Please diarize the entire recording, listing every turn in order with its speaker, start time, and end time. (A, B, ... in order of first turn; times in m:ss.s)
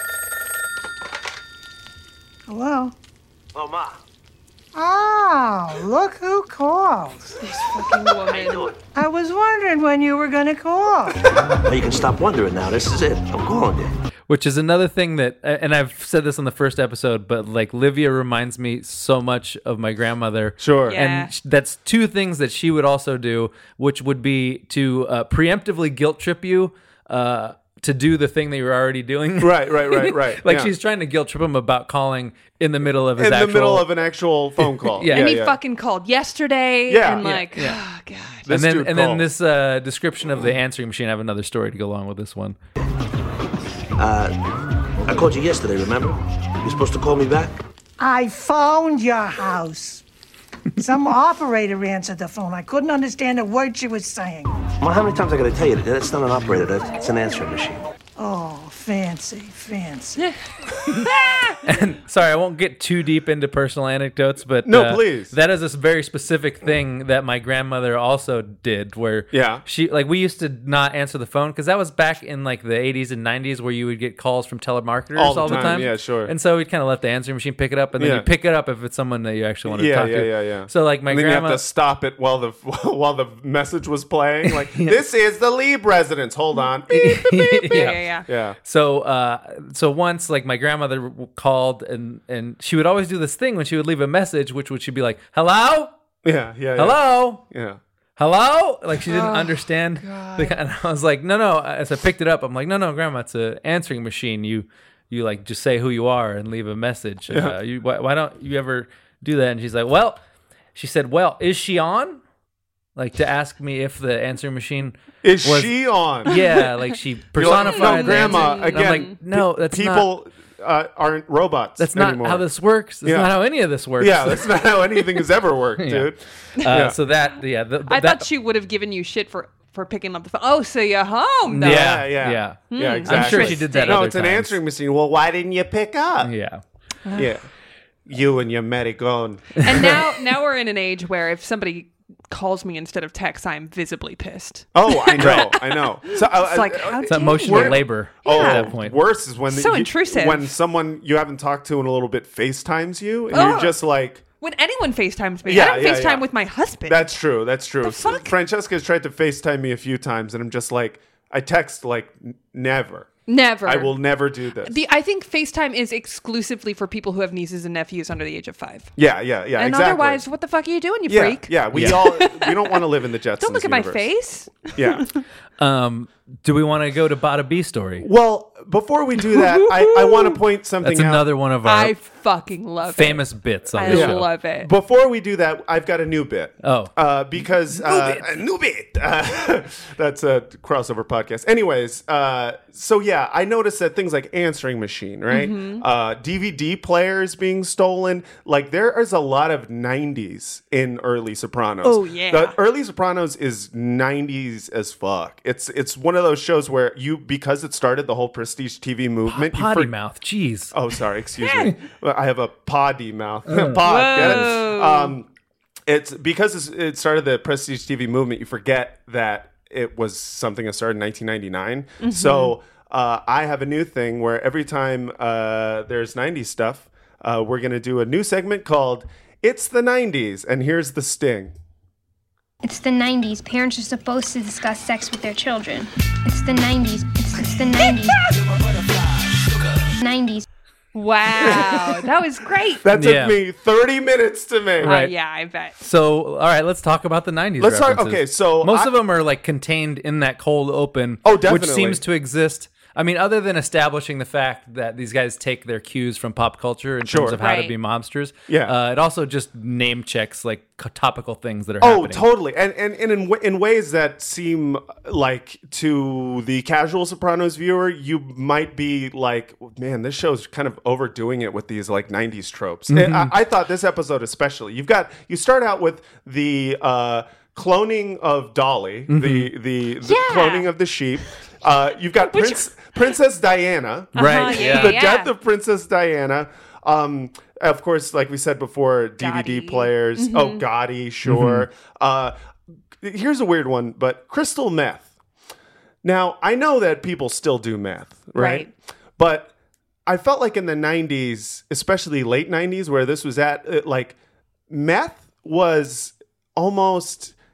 0:02.5-0:03.0 A
0:03.6-0:04.0 B
0:04.7-0:07.4 A
0:07.4-0:08.7 C
0:08.3-0:08.7 B
0:09.0-0:11.2 A
0:11.6-0:13.9 B
0:14.3-0:33.9 D
0:20.6-0:21.0 E
0:20.9-0:21.3 C
0:29.4-0:30.7 E
0:33.2-0:35.6 E
0:34.8-0:35.3 D
0:35.1-0:38.5 C
0:36.9-0:37.3 E
0:37.2-0:37.8 D
0:38.5-0:39.3 E
0:38.5-0:42.6 D
0:44.0-0:44.4 B
0:45.0-0:47.6 B
0:48.0-0:50.0 A
0:50.8-0:54.6 A
0:54.8-0:57.8 B
0:58.2-1:00.2 A
1:00.9-1:01.6 C
1:01.6-1:21.6 D
1:04.6-1:05.3 E
1:09.3-1:09.6 E
1:15.2-1:16.3 E
1:15.4-1:15.8 C
1:18.0-1:18.3 E
1:19.7-1:28.6 E
1:24.5-1:25.0 D
1:26.9-1:28.1 D
1:27.6-1:28.3 C
1:28.6-1:35.9 D
1:36.2-1:37.8 E
1:36.8-1:37.4 D
1:38.2-1:50.2 D
1:39.1-1:40.6 C
1:47.3-1:47.6 E
1:50.8-1:52.2 D
1:53.0-2:00.1 D
1:55.2-1:56.4 E
1:56.3-1:56.6 C
1:57.4-2:02.4 E
1:57.4-1:59.2 C
2:01.8-2:04.5 D
2:03.0-2:03.3 E
2:04.0-2:07.0 E
2:05.8-2:08.3 D
2:07.9-2:12.1 C
2:11.5-2:14.6 D
2:11.6-2:16.3 E
2:12.7-2:14.0 C
2:16.2-2:16.6 D
2:17.1-2:17.4 E
2:18.1-2:20.1 E
2:19.6-2:28.7 C
2:24.7-2:34.2 E
2:25.2-2:25.5 D
2:27.1-2:29.0 D
2:29.5-2:30.5 C
2:33.3-2:33.8 C
2:34.4-2:37.1 C
2:35.4-2:36.3 E
2:36.9-2:43.1 E
2:37.8-2:38.3 C
2:43.3-2:44.0 C
2:43.6-2:44.8 E
2:44.6-2:48.9 C
2:49.0-2:50.2 E
2:49.6-2:52.8 C
2:51.1-2:54.1 E
2:51.7-2:52.0 D
2:53.4-2:55.2 C
2:54.6-2:55.1 E
2:55.6-2:58.1 D
2:58.0-3:01.3 E
2:59.3-3:00.4 C
3:00.8-3:02.0 D
3:01.6-3:04.7 C
3:02.9-3:04.3 D
3:03.8-3:29.9 E
3:06.6-3:06.9 D
3:07.7-3:08.4 D
3:15.3-3:15.8 C
3:21.8-3:22.6 C
3:29.3-3:30.7 D
3:30.7-3:35.3 E
3:31.4-3:31.7 C
3:33.5-3:34.5 D
3:33.8-3:35.1 C
3:35.9-3:51.5 E
3:42.0-3:42.6 C
3:52.6-3:58.2 F
4:00.0-4:00.5 F
4:00.9-4:02.8 C
4:02.8-4:05.0 E
4:02.9-4:03.4 D
4:04.8-4:05.1 D
4:04.8-4:05.7 C
4:05.8-4:22.3 D
4:07.6-4:08.9 E
4:11.2-4:12.0 E
4:17.0-4:17.4 E
4:17.4-4:17.7 C
4:18.5-4:18.8 E
4:21.8-4:52.4 E
4:32.9-4:33.3 D
4:39.1-4:39.5 D
4:40.1-4:40.7 C
4:42.2-4:43.1 C
4:44.2-4:45.0 D
4:44.2-4:45.3 C
4:49.2-4:50.6 C
4:51.3-4:51.7 D
4:53.0-4:55.1 E
4:56.0-4:59.5 E
4:58.4-4:58.7 C
5:00.1-5:04.2 E
5:04.7-5:07.3 E